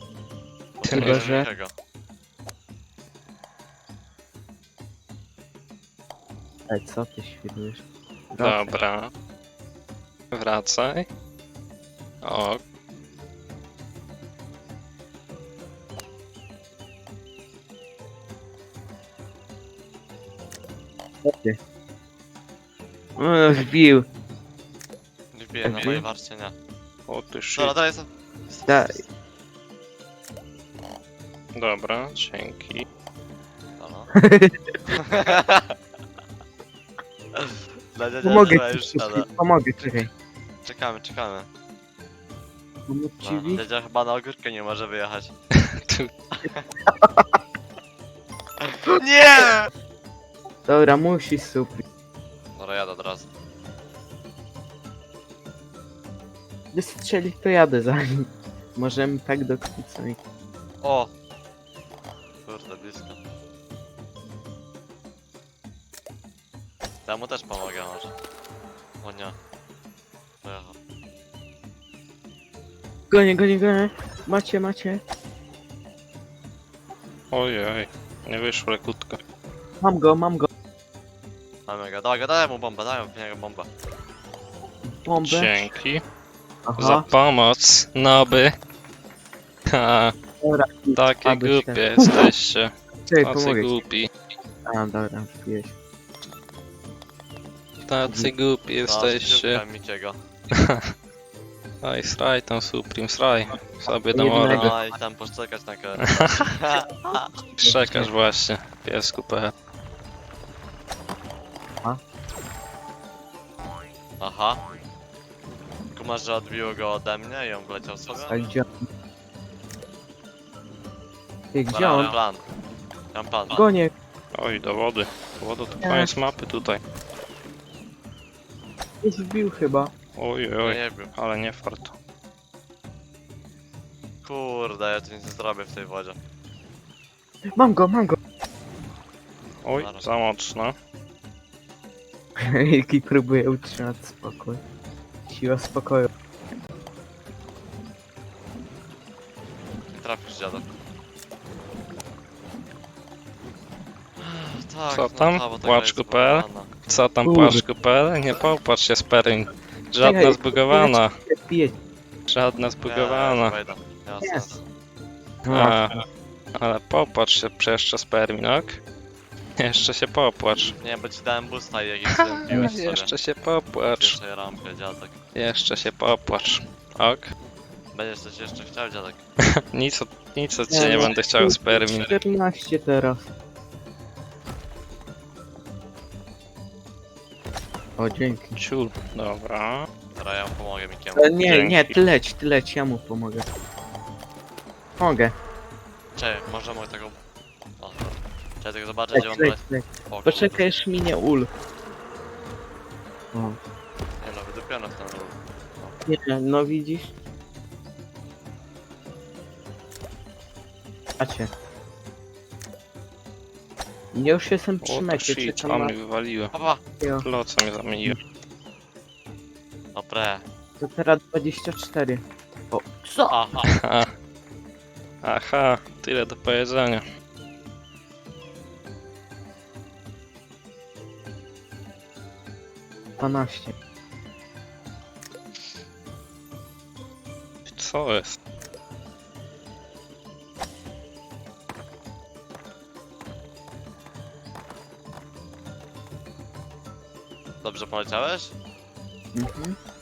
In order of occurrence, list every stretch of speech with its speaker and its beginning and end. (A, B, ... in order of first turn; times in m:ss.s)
0:00.8-0:01.7 A
0:00.8-0:01.4 B
0:00.9-0:01.5 C
0:06.7-0:08.8 C
0:08.4-0:09.1 B
0:10.3-0:11.1 B
0:12.2-0:12.6 B
0:21.2-0:21.6 C
0:23.2-0:24.0 C
0:25.3-0:26.5 A
0:25.6-0:26.0 C
0:27.1-0:27.7 B
0:27.5-0:29.0 A
0:28.7-0:29.0 C
0:31.5-0:32.8 B
0:33.8-0:34.1 A
0:34.2-0:34.6 C
0:34.9-0:35.7 A
0:37.3-0:39.3 A
0:38.2-0:40.1 C
0:40.6-0:41.5 A
0:42.9-0:43.6 C
0:43.2-0:45.3 A
0:45.5-0:46.1 B
0:46.4-0:46.7 A
0:46.9-0:47.4 C
0:48.6-0:49.7 A
0:50.6-0:51.8 C
0:52.5-0:53.3 A
0:56.7-1:00.2 C
1:00.8-1:01.1 A
1:02.4-1:03.2 A
1:07.0-1:08.1 A
1:09.0-1:09.4 A
1:10.4-1:10.7 A
1:13.1-1:15.0 C
1:17.3-1:19.2 B
1:19.8-1:20.5 C
1:21.7-1:23.7 A
1:24.8-1:25.7 C
1:25.2-1:26.0 B
1:26.6-1:27.0 C
1:26.8-1:28.5 B
1:29.7-1:30.1 B
1:30.4-1:32.2 C
1:31.0-1:34.1 B
1:33.1-1:33.8 C
1:34.7-1:35.7 C
1:37.8-1:39.6 B
1:38.0-1:38.3 C
1:38.8-1:40.2 A
1:40.5-1:40.8 B
1:41.8-1:44.7 B
1:44.1-1:44.8 C
1:44.3-1:47.3 A
1:46.0-1:46.5 B
1:47.6-1:49.5 B
1:47.6-1:48.1 C
1:54.2-1:54.6 A
1:55.9-1:58.4 A
1:58.1-1:58.8 C
2:01.5-2:02.1 C
2:01.7-2:02.4 A
2:03.1-2:03.7 A
2:03.5-2:03.9 C
2:04.3-2:06.8 B
2:05.8-2:06.3 C
2:09.0-2:09.9 C
2:10.2-2:11.9 B
2:10.6-2:11.1 A
2:14.2-2:16.2 A
2:17.5-2:18.2 C
2:19.6-2:20.7 B
2:19.7-2:20.1 A
2:22.4-2:24.6 C
2:25.3-2:26.1 C
2:29.9-2:30.7 A
2:34.2-2:36.7 A
2:34.9-2:41.1 B
2:37.2-2:37.6 C
2:40.0-2:41.7 C
2:42.3-2:43.5 B
2:42.8-2:44.6 A
2:45.4-2:45.9 C
2:45.5-2:46.0 B
2:46.6-2:48.8 B
2:49.6-2:50.7 B
2:50.8-2:53.1 A
2:52.5-2:54.2 B
2:53.8-2:55.2 A
2:55.3-2:57.3 B
2:57.9-2:59.2 A
2:59.7-3:02.1 B
3:00.7-3:03.2 C
3:08.0-3:08.6 C
3:08.5-3:09.9 B
3:10.1-3:11.4 A
3:11.1-3:13.5 C
3:11.4-3:12.0 B
3:15.0-3:15.3 C
3:16.1-3:17.2 A
3:17.8-3:20.7 A
3:19.1-3:21.5 C
3:23.3-3:23.6 C
3:24.2-3:25.9 A
3:26.0-3:27.1 C
3:31.2-3:31.5 C
3:34.1-3:35.9 C
3:34.8-3:36.5 B
3:36.5-3:36.8 A
3:37.0-3:37.3 C
3:37.2-3:38.2 B
3:39.9-3:40.4 A
3:40.8-3:43.3 C
3:43.3-3:43.7 A
3:43.6-3:44.1 B
3:45.2-3:47.0 B
3:53.2-3:53.7 C
3:57.7-3:58.4 B
4:07.6-4:08.5 A
4:09.3-4:09.8 C